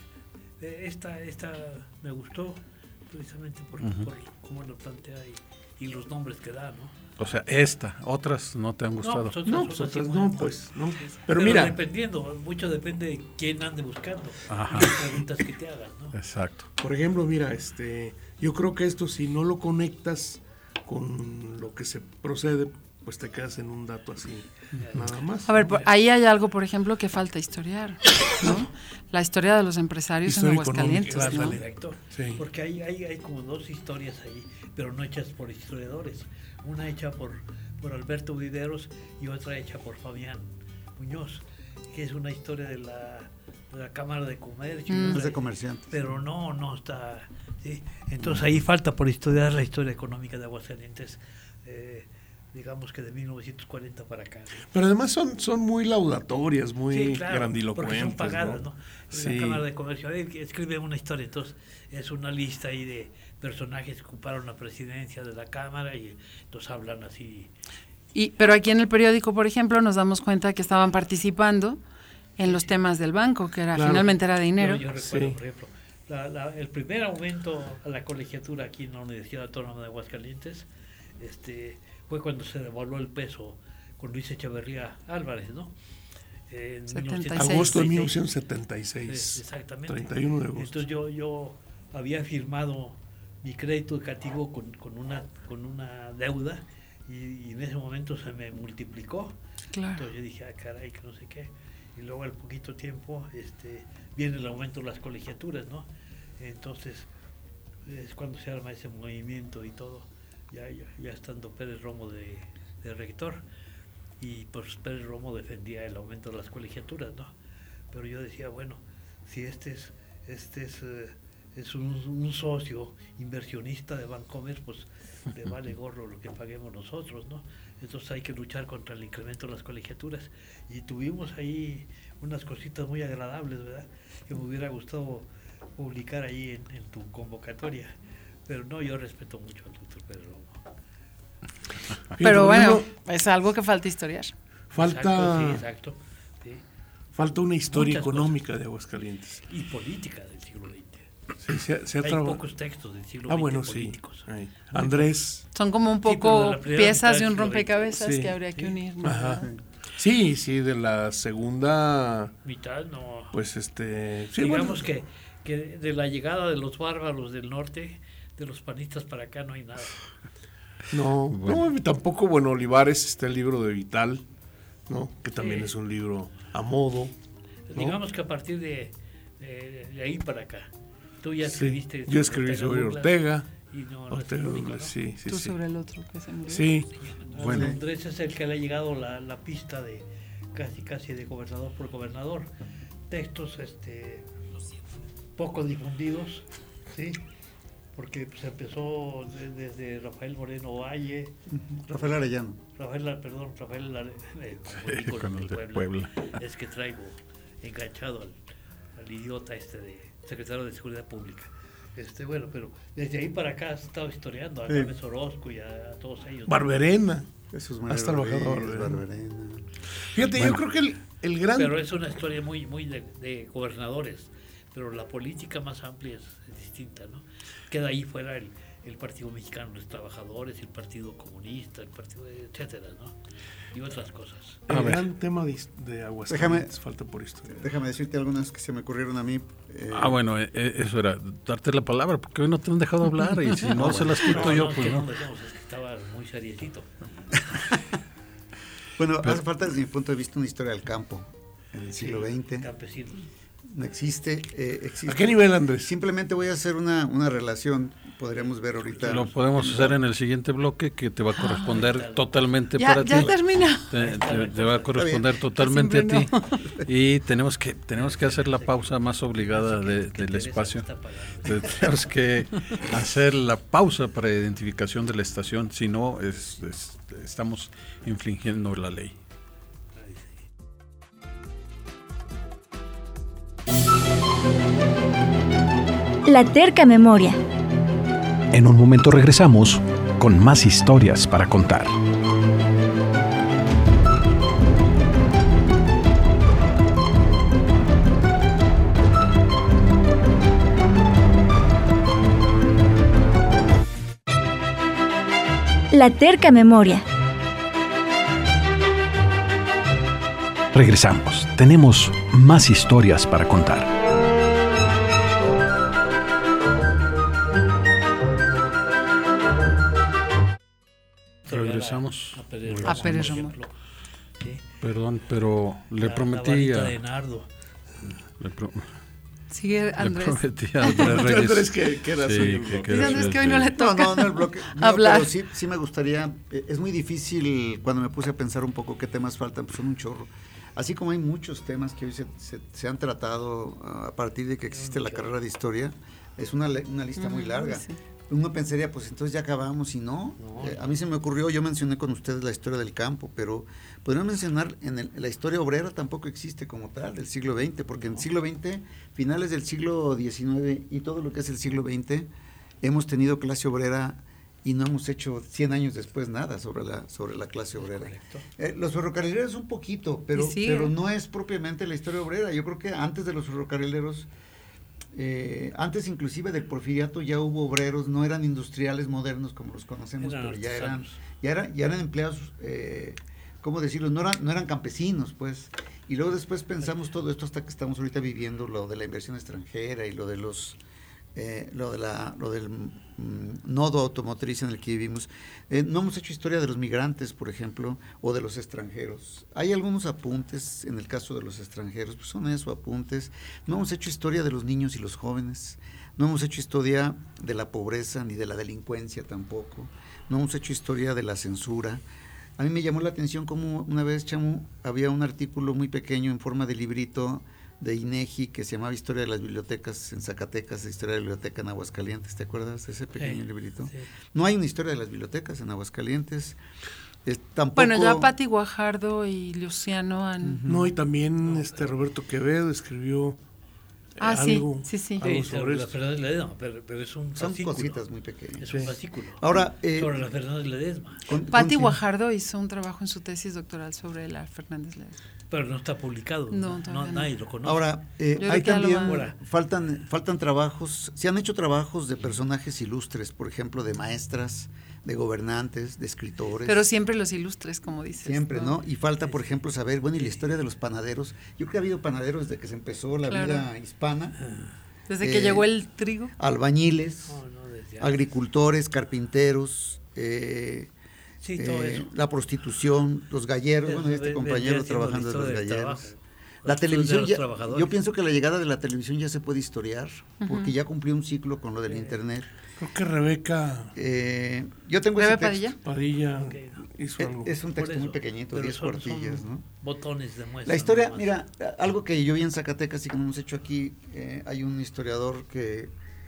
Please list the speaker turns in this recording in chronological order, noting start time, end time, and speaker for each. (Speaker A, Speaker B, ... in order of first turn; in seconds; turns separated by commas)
Speaker A: 0.6-6.9, Speaker B: 3.8-4.1, Speaker B: 7.2-9.3, Speaker A: 9.0-16.1, Speaker C: 9.4-11.8, Speaker B: 14.5-15.0, Speaker B: 16.1-16.6, Speaker C: 16.8-25.8, Speaker A: 24.8-25.1, Speaker D: 25.5-31.6, Speaker C: 30.2-32.4, Speaker A: 31.1-54.7, Speaker D: 44.9-45.2, Speaker E: 45.0-45.9, Speaker C: 54.7-59.6, Speaker A: 56.9-67.5, Speaker D: 68.1-71.8, Speaker D: 72.4-74.8, Speaker C: 73.7-74.2, Speaker A: 74.5-80.7, Speaker C: 75.0-75.4, Speaker A: 81.2-85.7, Speaker A: 86.5-88.2, Speaker D: 86.9-87.8, Speaker C: 87.3-90.8, Speaker A: 89.1-99.3, Speaker D: 99.7-100.0, Speaker A: 99.9-105.9, Speaker A: 106.4-107.1, Speaker A: 107.8-113.4, Speaker A: 114.2-117.3, Speaker A: 117.9-137.9, Speaker A: 138.4-140.6, Speaker C: 142.1-142.9, Speaker D: 142.2-144.3, Speaker C: 144.7-145.6, Speaker A: 144.7-146.6, Speaker C: 147.1-149.4, Speaker A: 147.7-148.3, Speaker A: 149.5-151.1, Speaker C: 151.4-152.4, Speaker A: 152.0-155.1, Speaker C: 153.3-155.4, Speaker D: 155.5-159.5, Speaker A: 156.0-157.8, Speaker C: 157.9-158.4, Speaker C: 159.0-159.4, Speaker C: 160.0-162.3, Speaker A: 162.4-163.3, Speaker C: 163.3-164.9, Speaker A: 164.4-170.0, Speaker C: 170.9-174.2, Speaker B: 171.3-171.6, Speaker C: 174.9-177.1, Speaker A: 175.4-175.7, Speaker A: 177.7-180.7, Speaker A: 181.2-184.9, Speaker C: 181.4-183.5, Speaker C: 184.1-185.6, Speaker D: 185.3-186.7, Speaker C: 186.5-186.9, Speaker A: 187.0-192.5, Speaker B: 187.4-187.8, Speaker E: 187.4-187.8, Speaker A: 193.1-194.3, Speaker A: 195.4-197.2, Speaker A: 197.9-201.3, Speaker E: 201.5-202.6, Speaker A: 202.8-208.3, Speaker B: 204.8-206.3, Speaker A: 208.9-216.7, Speaker C: 216.5-217.3, Speaker E: 217.5-219.7, Speaker C: 217.8-219.0, Speaker C: 220.1-221.8, Speaker B: 220.3-220.6, Speaker A: 221.5-233.2, Speaker A: 233.7-234.6, Speaker C: 234.7-237.6, Speaker B: 234.7-235.1, Speaker E: 236.3-236.7, Speaker E: 237.5-240.2, Speaker B: 239.9-245.1, Speaker E: 243.6-244.7, Speaker A: 243.8-246.9, Speaker E: 249.0-252.7, Speaker A: 252.0-253.3, Speaker E: 253.7-260.0, Speaker C: 255.0-255.9, Speaker A: 258.8-259.2, Speaker B: 259.0-270.9, Speaker D: 261.4-261.7, Speaker A: 261.7-262.3, Speaker D: 262.8-263.9, Speaker A: 263.9-265.0, Speaker E: 264.9-265.3, Speaker D: 265.5-266.6, Speaker A: 267.9-272.0, Speaker B: 271.4-279.1, Speaker A: 280.0-280.4, Speaker F: 286.2-287.4, Speaker G: 288.5-291.9, Speaker F: 305.9-307.0, Speaker G: 310.7-313.9, Speaker A: 321.4-323.7, Speaker B: 321.5-323.4, Speaker D: 322.8-323.5, Speaker B: 324.8-327.0, Speaker A: 326.0-327.5, Speaker B: 328.4-328.9, Speaker D: 329.5-331.2, Speaker B: 330.0-333.7, Speaker C: 330.9-333.3, Speaker D: 332.8-335.3, Speaker E: 333.7-362.3, Speaker A: 344.7-345.3, Speaker D: 347.2-347.9, Speaker A: 350.4-350.9, Speaker A: 357.9-358.2, Speaker E: 362.8-374.3, Speaker A: 367.8-368.4, Speaker D: 370.3-370.9, Speaker E: 375.1-390.8, Speaker A: 380.2-381.2, Speaker E: 391.3-412.0, Speaker E: 412.6-426.6, Speaker A: 423.1-424.1, Speaker E: 427.2-428.3, Speaker D: 427.8-430.6, Speaker E: 430.4-430.9, Speaker C: 430.6-433.4, Speaker A: 431.4-431.9, Speaker C: 434.2-435.9, Speaker D: 434.2-435.2, Speaker A: 435.2-438.0, Speaker E: 437.4-440.1, Speaker A: 438.6-439.4, Speaker A: 439.9-441.2, Speaker E: 441.2-442.0, Speaker D: 441.5-445.2, Speaker A: 445.5-447.9, Speaker D: 446.5-447.3, Speaker E: 447.6-456.8, Speaker D: 448.4-449.2, Speaker A: 449.0-449.4, Speaker D: 456.6-458.8, Speaker E: 458.2-464.4, Speaker A: 459.2-459.6, Speaker A: 460.1-460.4, Speaker D: 463.3-463.7, Speaker A: 464.4-464.7, Speaker D: 465.1-466.3, Speaker E: 465.2-465.7, Speaker E: 466.4-467.4, Speaker A: 467.3-468.3, Speaker E: 468.0-470.9, Speaker A: 471.4-472.1, Speaker E: 471.6-476.1, Speaker A: 473.8-477.9, Speaker E: 476.6-482.5, Speaker D: 480.4-480.7, Speaker A: 481.9-482.1, Speaker C: 482.8-483.9, Speaker E: 483.9-485.8, Speaker D: 485.2-485.8, Speaker C: 485.8-487.5, Speaker A: 486.4-486.8, Speaker E: 487.2-489.6, Speaker A: 487.8-491.3, Speaker E: 490.6-495.9